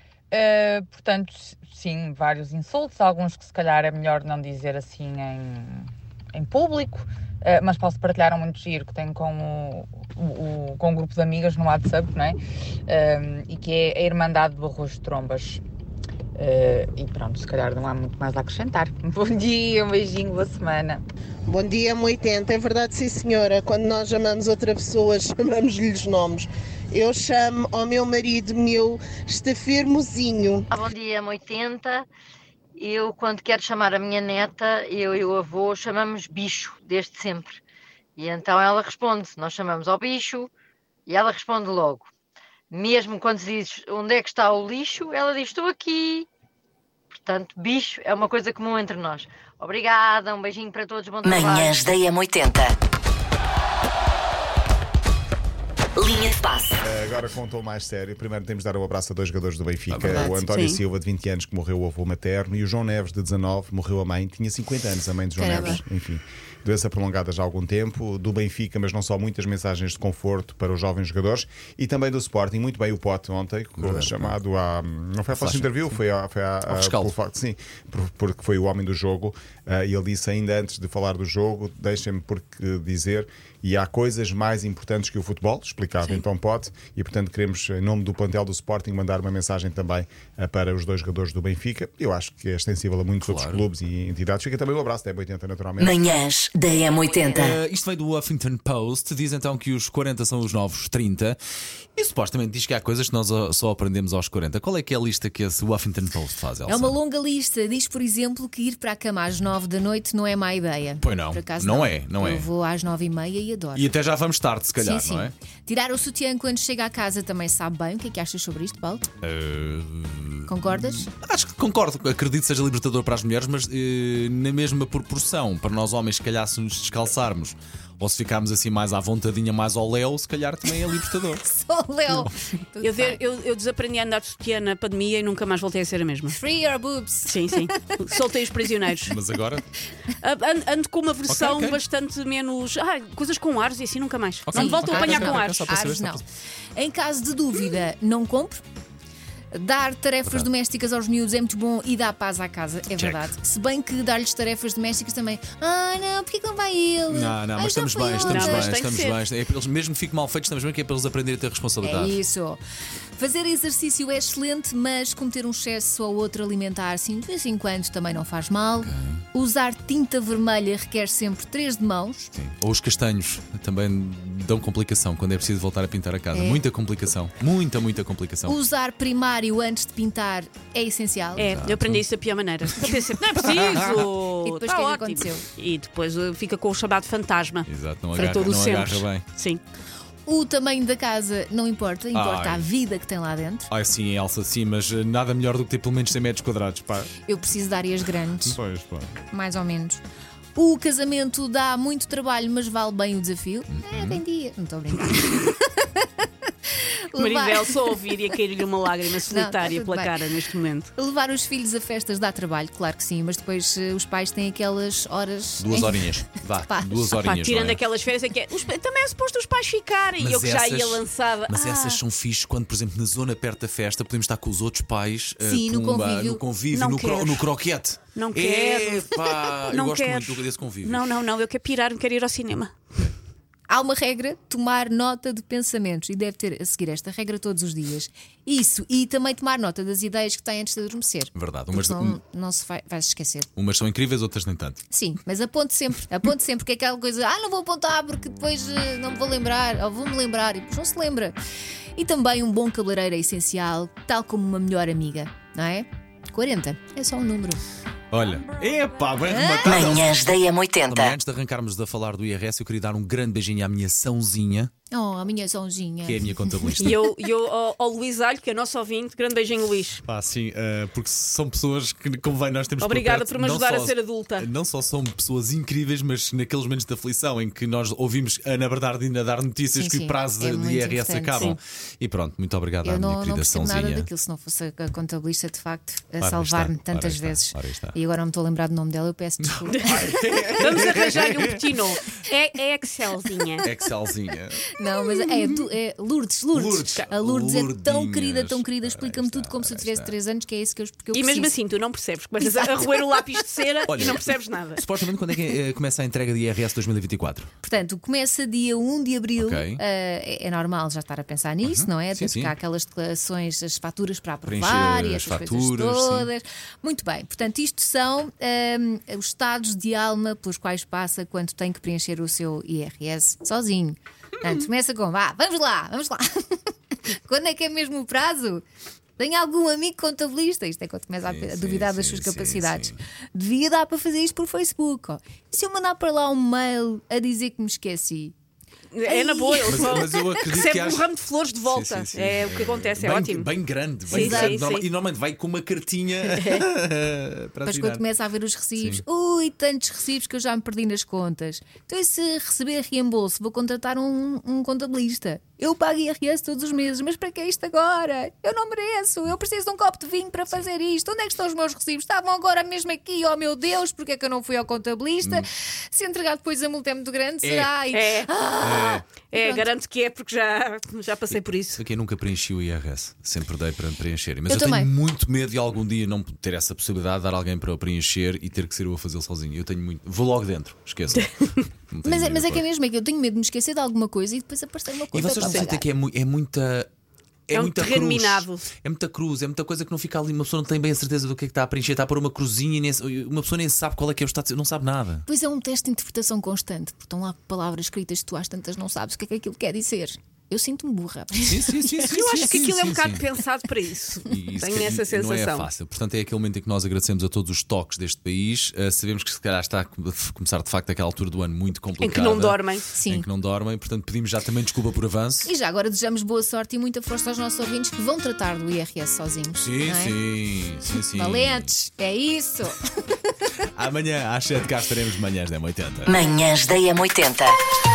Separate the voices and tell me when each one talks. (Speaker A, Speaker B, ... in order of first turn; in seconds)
Speaker A: 0.3-15.6, 16.4-21.0
Speaker B: 21.4-30.6
Speaker C: 30.7-32.0, 32.8-37.6, 38.2-40.5, 41.1-42.0, 42.7-46.2, 47.2-51.7
Speaker D: 51.2-52.7, 56.0-56.7, 95.8-97.6, 259.7-261.1, 426.1-427.6
Speaker E: 56.8-96.0, 198.6-199.0
Speaker F: 59.9-60.3, 73.8-74.3, 75.3-76.0, 76.7-77.1, 93.2-93.6, 97.2-101.4, 102.0-107.0, 111.0-112.5, 113.7-115.3, 119.2-131.4, 139.1-139.6, 141.3-141.8, 144.4-146.2, 152.9-153.3, 157.1-162.2, 168.8-169.2, 172.3-178.6, 181.4-182.0, 182.7-184.0, 187.7-189.2, 192.1-192.7, 193.7-197.1, 203.7-204.2, 215.6-217.8, 220.2-231.1, 241.3-242.2, 243.6-244.8, 258.1-264.7, 266.0-267.0, 270.0-284.1, 286.2-287.9, 289.4-291.6, 293.6-295.3, 296.5-300.1, 303.9-307.5, 309.4-309.8, 311.6-312.5, 314.4-316.3, 331.2-333.0, 339.6-341.1, 341.6-348.0, 348.8-349.0, 367.4-367.8, 368.6-369.1, 371.3-381.3, 381.9-382.6, 385.1-386.9, 387.5-395.2, 401.4-403.2, 404.3-415.5, 419.6-421.7, 423.6-426.1
Speaker G: 60.1-60.4, 65.3-65.8, 106.7-113.9, 114.8-119.1, 120.5-121.1, 130.8-133.2, 136.3-138.0, 144.5-146.2, 146.7-148.6, 149.5-158.7, 161.8-162.6, 163.2-172.3, 176.3-176.6, 178.5-181.6, 184.4-185.4, 190.2-193.7, 197.3-198.6, 199.3-200.0, 200.5-205.9, 206.7-207.8, 209.3-210.1, 210.9-217.2, 225.4-226.4, 233.7-243.5, 244.9-251.3, 251.9-257.6, 259.3-260.0, 264.9-266.6, 279.7-281.5, 282.8-289.9, 294.7-301.5, 302.5-302.8, 307.6-326.6, 327.1-328.6, 329.2-338.3, 339.1-339.9, 344.1-344.6, 347.6-369.7, 374.5-374.9, 382.1-385.9, 395.3-401.9, 412.9-413.2, 415.4-420.2, 421.1-422.8
Speaker H: 60.5-60.8, 132.8-136.3, 137.3-139.2, 140.2-145.7, 158.2-159.2, 181.4-189.6, 207.2-210.9, 217.2-222.0, 226.7-227.5, 228.1-232.8, 266.8-270.0, 272.8-274.5, 290.5-293.6, 301.1-304.9, 338.9-343.5, 344.1-344.9, 346.3-346.6, 367.9-368.3, 369.3-371.8, 385.4-385.7, 387.5-388.7, 402.1-405.7, 412.0-412.9